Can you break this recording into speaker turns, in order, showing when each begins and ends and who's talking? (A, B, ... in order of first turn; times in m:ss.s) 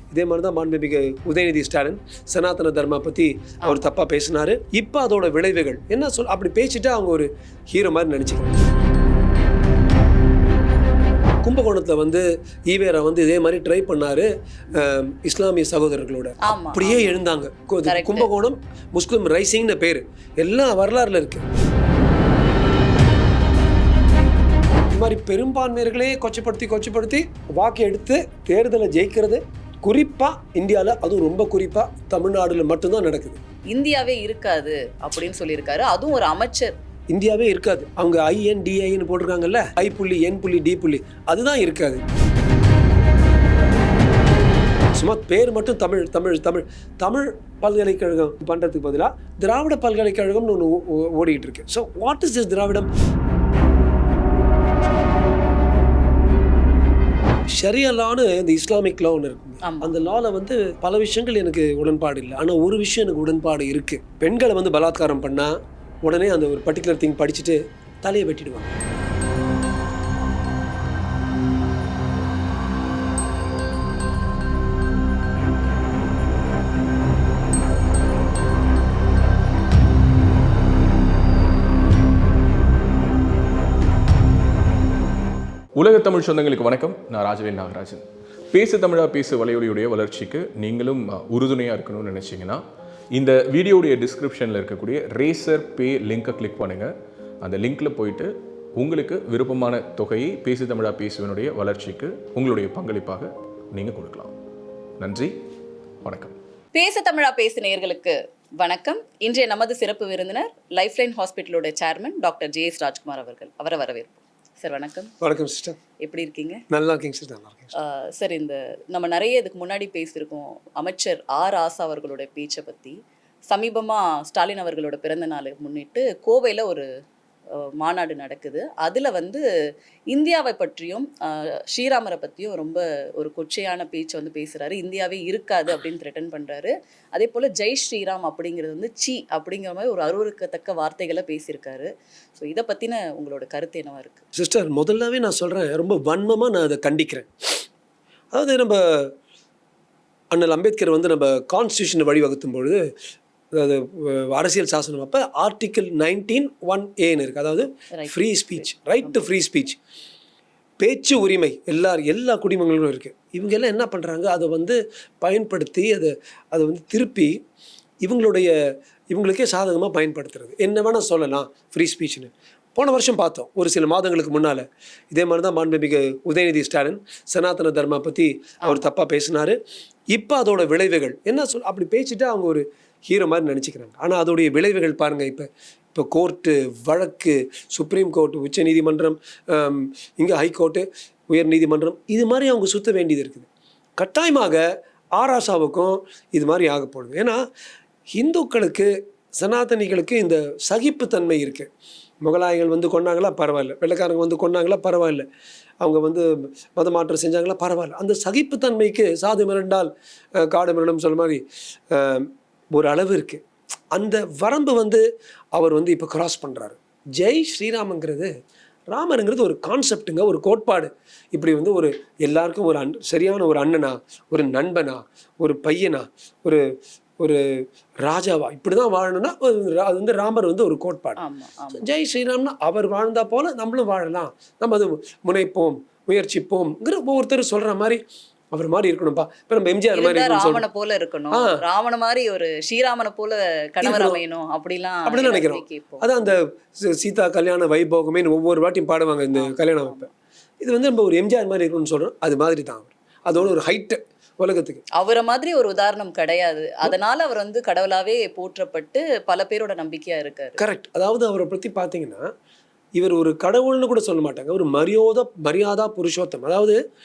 0:00.1-0:08.7 A
0:11.4-0:21.5 A
0:16.4-0:17.2 B
0:17.8-0:18.3 B
0:24.9-0:33.4 A
0:33.7-0:36.7 B
0:37.1-0:42.0 A
0:44.9-0:52.9 A
0:57.5-1:08.8 A
0:59.6-0:59.9 B
1:25.8-1:32.6 C
1:33.1-1:36.9 C
1:37.4-1:44.3 C
1:45.0-1:45.3 C
1:46.0-1:46.3 C
1:46.7-1:55.1 B
1:55.2-1:55.8 A
1:56.0-1:56.6 B
1:56.7-1:57.7 A
1:57.7-2:03.0 B
2:03.5-2:06.8 B
2:07.6-2:09.4 B
2:10.1-2:24.2 B
2:24.3-2:27.6 A
2:28.3-2:29.1 A
2:30.3-2:32.8 A
2:33.5-2:39.8 A
2:37.9-2:39.3 B
2:40.8-2:47.4 A
2:48.0-2:48.5 A
2:49.1-2:59.6 A
3:00.1-3:14.6 A
3:15.1-3:17.4 A
3:18.1-3:21.7 A
3:22.2-3:25.2 A
3:25.8-3:35.0 A
3:35.5-3:38.3 A
3:38.9-3:46.6 A
3:47.2-3:51.2 A
3:51.2-3:51.8 B
3:51.8-4:00.6 A
3:59.9-4:06.1 B
4:01.3-4:01.6 A
4:03.8-4:04.2 A
4:05.0-4:10.1 A
4:09.3-4:10.1 B
4:10.6-4:14.8 A
4:14.9-4:20.6 B
4:20.6-4:22.3 A
4:23.0-4:26.8 A